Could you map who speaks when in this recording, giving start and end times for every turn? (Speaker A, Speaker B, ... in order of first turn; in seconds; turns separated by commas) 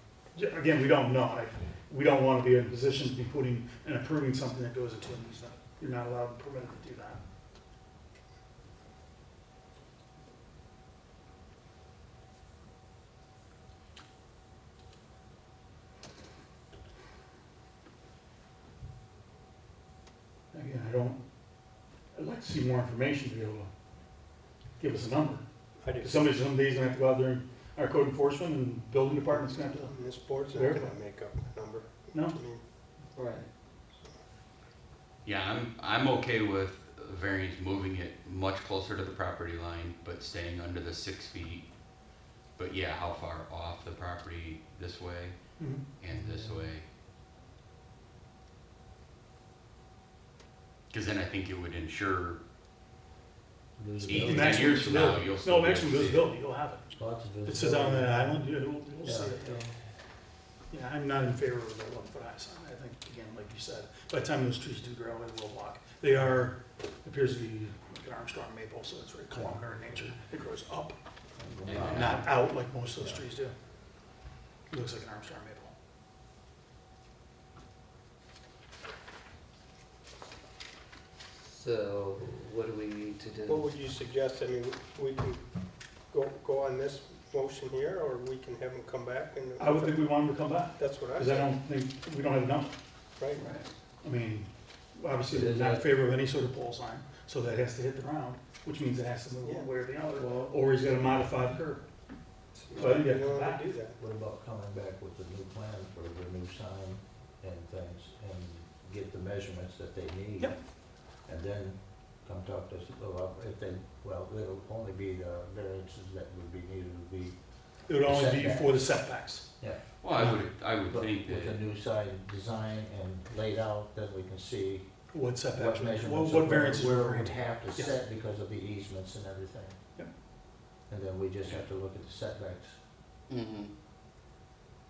Speaker A: 0.3-7.2, Speaker A: 20.5-21.2, Speaker A: 22.1-23.7, Speaker A: 24.8-25.4, Speaker B: 25.8-26.2, Speaker A: 25.9-29.9, Speaker B: 29.2-32.6, Speaker A: 30.5-30.9, Speaker C: 33.2-33.5, Speaker D: 35.2-41.7, Speaker D: 42.5-45.3, Speaker A: 45.6-45.8, Speaker D: 46.0-46.8, Speaker E: 46.1-46.6, Speaker D: 50.9-52.4, Speaker E: 53.8-54.8, Speaker D: 54.0-56.2, Speaker A: 54.1-56.8, Speaker E: 57.0-58.4, Speaker A: 57.4-59.6, Speaker E: 59.0-59.7, Speaker A: 60.7-71.0, Speaker E: 69.3-69.6, Speaker E: 71.4-72.3, Speaker D: 71.7-72.2, Speaker A: 71.8-73.5, Speaker E: 73.0-73.2, Speaker A: 74.7-75.7, Speaker C: 81.5-83.6, Speaker B: 83.5-85.4, Speaker B: 86.1-90.2, Speaker A: 89.6-92.7, Speaker B: 90.8-91.5, Speaker B: 93.2-93.5, Speaker E: 93.3-93.6, Speaker A: 94.0-101.8, Speaker E: 95.3-95.9, Speaker E: 100.2-100.5, Speaker B: 102.5-104.0, Speaker A: 102.7-103.6, Speaker E: 104.0-117.4, Speaker A: 117.9-119.5, Speaker E: 117.9-118.9, Speaker D: 120.0-121.6, Speaker E: 120.8-124.9, Speaker A: 125.1-127.9, Speaker E: 125.5-129.8, Speaker E: 130.9-132.8, Speaker D: 133.3-133.7